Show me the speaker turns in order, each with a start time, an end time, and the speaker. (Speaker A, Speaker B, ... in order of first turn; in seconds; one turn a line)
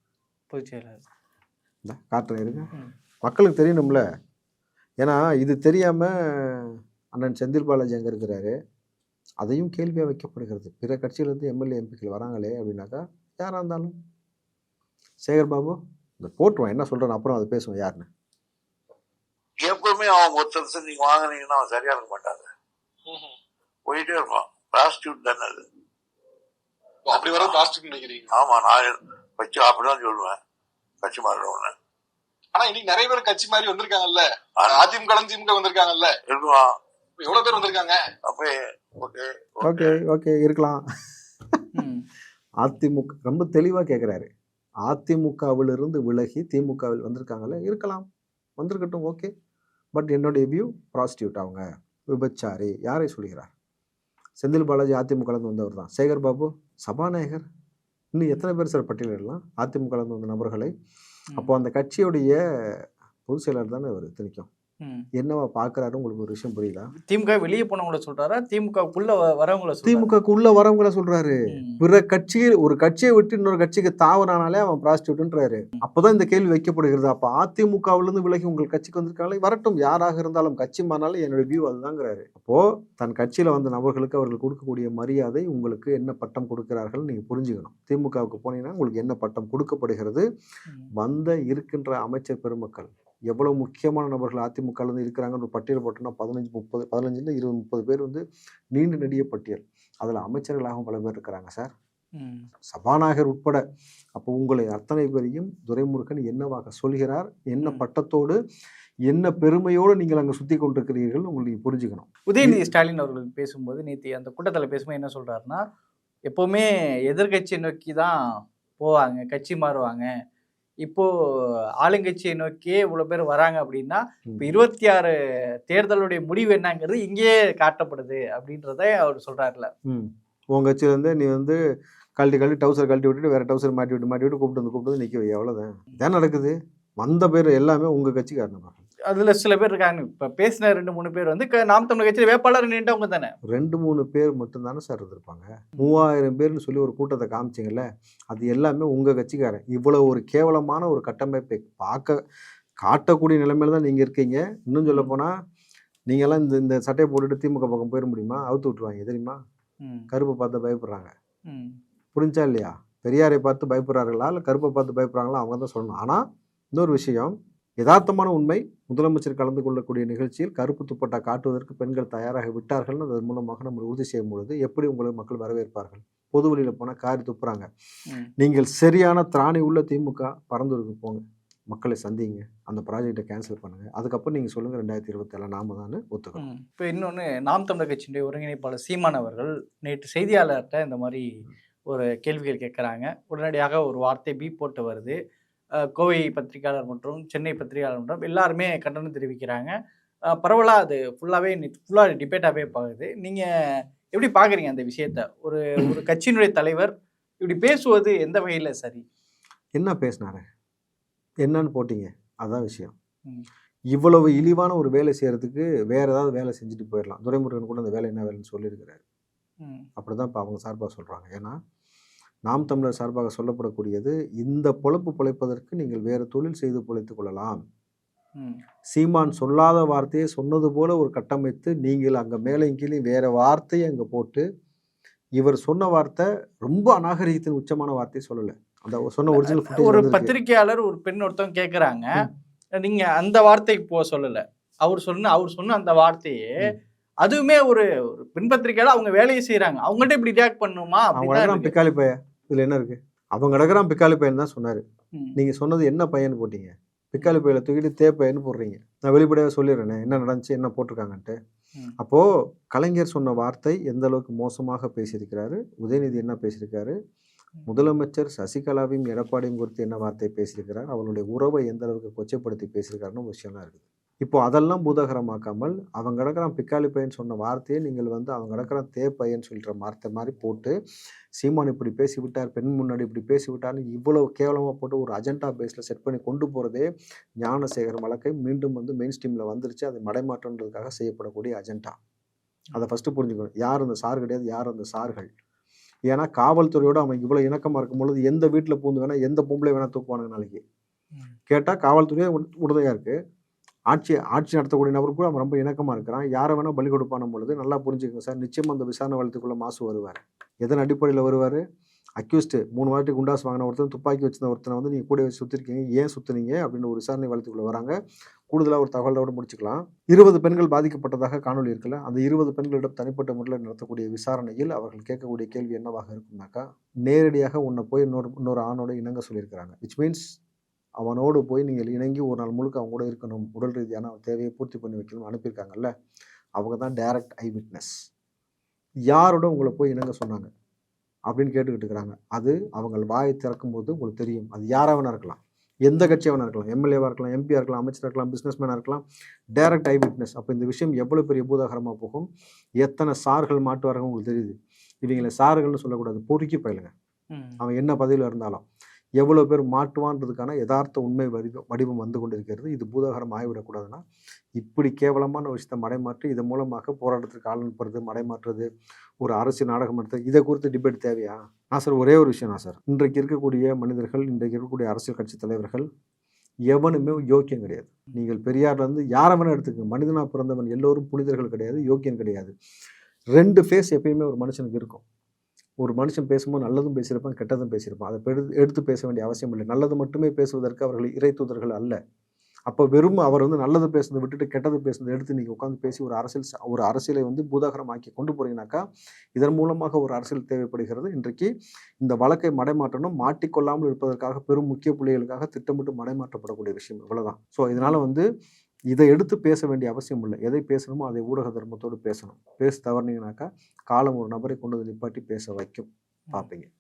Speaker A: 0.5-1.0
Speaker B: 1.9-2.7
Speaker B: 3.2-4.0
Speaker B: 5.0-8.5
Speaker B: 9.4-13.9
Speaker B: 15.2-18.1
Speaker C: 19.6-22.5
Speaker D: 23.1-23.3
Speaker C: 23.9-25.6
Speaker D: 27.1-28.4
Speaker C: 27.1-27.7
Speaker C: 28.3-30.4
Speaker C: 31.0-31.7
Speaker D: 32.5-36.1
Speaker C: 34.6-34.9
Speaker C: 36.3-36.7
Speaker D: 37.2-38.0
Speaker C: 38.2-40.0
Speaker B: 39.6-40.8
Speaker A: 41.8-42.0
Speaker B: 42.6-44.3
Speaker B: 44.9-48.1
Speaker B: 48.6-49.3
Speaker B: 50.0-53.5
Speaker B: 54.4-57.5
Speaker B: 58.1-60.7
Speaker B: 61.4-64.5
Speaker B: 65.2-66.9
Speaker A: 67.0-70.1
Speaker B: 69.9-90.2
Speaker A: 71.5-71.8
Speaker B: 91.0-98.2
Speaker B: 98.7-101.7
Speaker A: 102.2-102.5
Speaker B: 102.7-103.6
Speaker B: 104.2-108.3
Speaker B: 109.1-112.6
Speaker A: 112.3-115.6
Speaker A: 116.3-118.2
Speaker A: 118.8-120.1
Speaker A: 121.8-125.1
Speaker B: 124.3-124.6
Speaker A: 125.7-129.7
Speaker B: 129.9-131.6
Speaker B: 132.2-138.8
Speaker A: 139.1-143.3
Speaker B: 143.5-152.1
Speaker B: 152.8-155.3
Speaker A: 154.9-155.1
Speaker B: 156.1-159.4
Speaker A: 159.8-160.1
Speaker B: 160.1-161.1
Speaker A: 161.5-161.8
Speaker B: 162.1-177.7
Speaker B: 178.4-186.4
Speaker A: 186.4-191.3
Speaker A: 191.9-195.2
Speaker A: 195.9-199.7
Speaker A: 200.3-203.4
Speaker A: 204.1-206.9
Speaker A: 207.4-209.0
Speaker B: 209.8-210.4
Speaker B: 211.4-212.9
Speaker B: 213.9-219.0
Speaker A: 219.6-219.9
Speaker B: 220.0-221.6
Speaker B: 222.5-227.6
Speaker B: 228.9-234.4
Speaker B: 235.4-240.3
Speaker A: 239.3-242.2
Speaker A: 242.8-251.7
Speaker B: 251.2-254.8
Speaker B: 255.4-261.4
Speaker B: 262.0-266.9
Speaker B: 267.7-280.7
Speaker B: 281.4-286.9
Speaker B: 287.4-291.9
Speaker B: 292.8-295.3
Speaker B: 296.1-300.6
Speaker B: 301.5-303.1
Speaker B: 303.9-311.6
Speaker B: 312.2-317.9
Speaker B: 318.5-330.2
Speaker B: 331.0-335.9
Speaker B: 336.6-337.9
Speaker B: 339.1-340.5
Speaker B: 341.3-349.0
Speaker B: 349.6-352.3
Speaker B: 352.8-356.9
Speaker A: 357.3-357.6
Speaker B: 357.6-358.6
Speaker B: 359.2-364.0
Speaker B: 364.6-368.7
Speaker B: 369.2-375.9
Speaker B: 376.7-382.5
Speaker B: 383.4-385.0
Speaker B: 385.8-392.0
Speaker B: 392.7-398.8
Speaker B: 399.4-401.5
Speaker B: 402.0-408.2
Speaker B: 408.9-416.7